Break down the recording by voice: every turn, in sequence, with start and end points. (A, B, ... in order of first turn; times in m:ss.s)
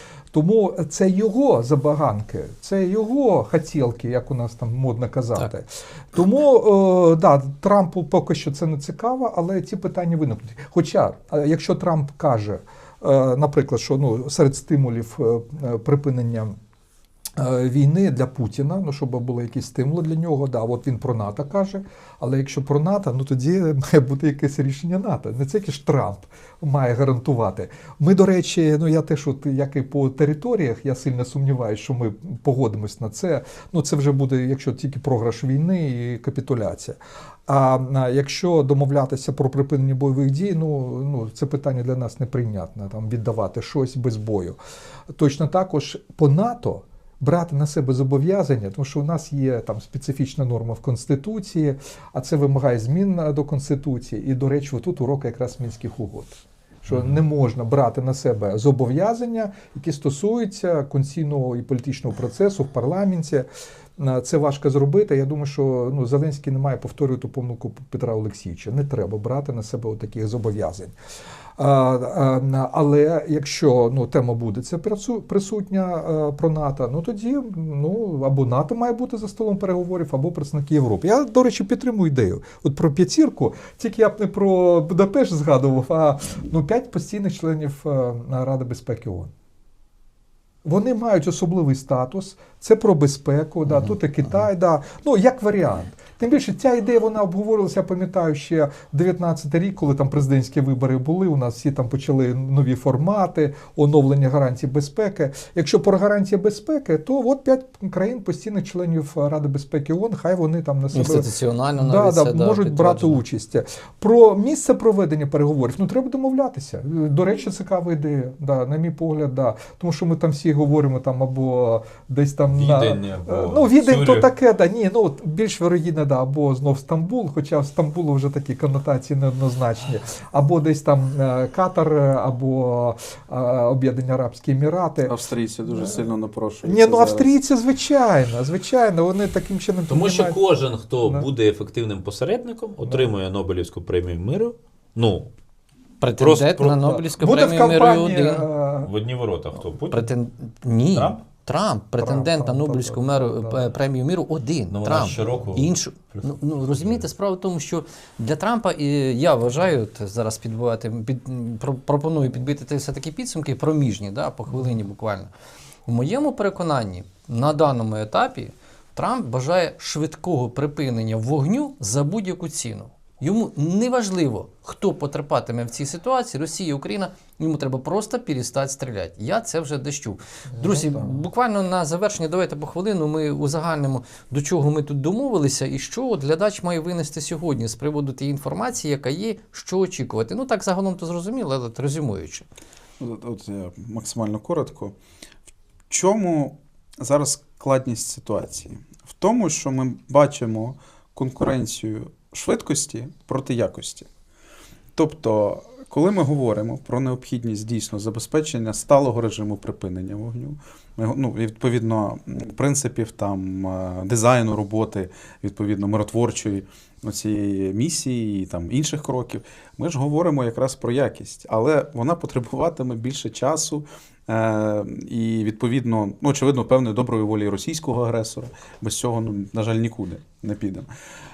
0:00.3-0:16.6 A
0:17.4-0:44.6 A
0:45.1-1:03.4 A
0:56.9-0:57.2 B
1:04.0-1:10.9 A
1:11.6-1:29.3 A
1:30.6-2:16.1 A
1:50.9-1:53.2 C
2:02.5-2:04.3 B
2:15.0-2:17.3 D
2:16.6-2:20.4 A
2:19.9-2:25.3 B
2:21.0-2:21.3 A
2:22.8-2:23.1 A
2:26.0-2:28.4 C
2:26.2-2:26.8 B
2:26.8-2:28.9 A
2:28.8-2:30.1 B
2:29.9-2:45.3 C
2:30.9-2:31.2 B
2:32.0-2:33.7 A
2:34.7-2:37.1 B
2:45.8-3:12.4 C
3:00.5-3:01.2 A
3:13.0-3:14.9 D
3:15.9-3:24.1 D
3:24.9-3:50.9 D